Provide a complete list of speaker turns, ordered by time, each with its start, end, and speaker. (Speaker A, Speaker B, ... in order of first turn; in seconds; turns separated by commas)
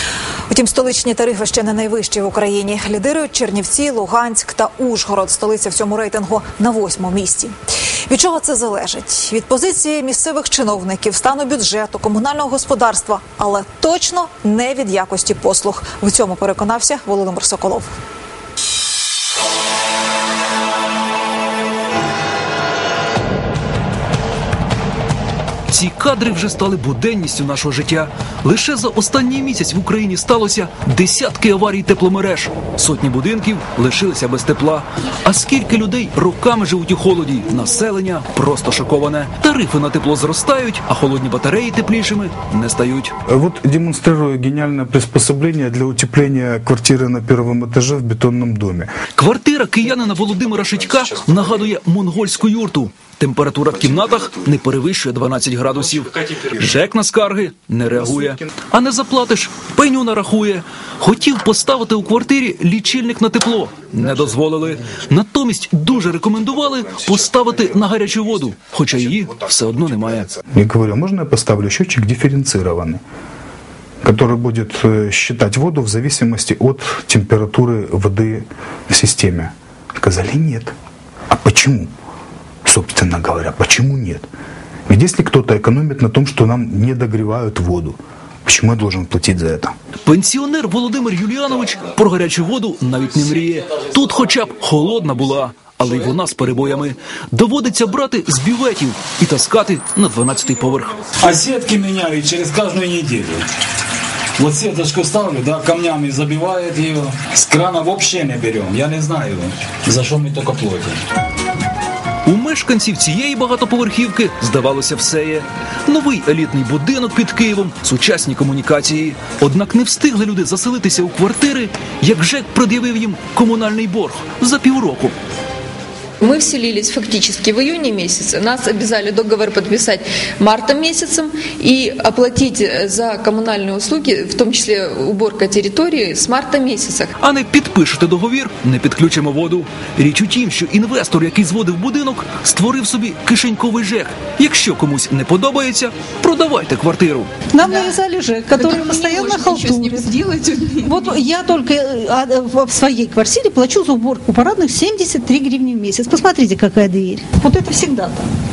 Speaker A: 0.5-7.5, Speaker A: 8.1-17.9, Speaker B: 25.7-43.1, Speaker C: 43.3-48.9, Speaker B: 49.2-70.3, Speaker C: 70.5-73.0, Speaker C: 74.0-80.8, Speaker C: 81.3-81.9, Speaker C: 82.7-84.3, Speaker C: 84.9-89.7, Speaker B: 90.1-101.0, Speaker D: 101.2-103.5, Speaker D: 104.4-111.0, Speaker B: 112.2-125.2, Speaker E: 126.2-137.1, Speaker B: 137.2-147.3, Speaker F: 147.5-150.1, Speaker E: 147.6-147.9, Speaker E: 148.5-151.2, Speaker F: 150.8-158.2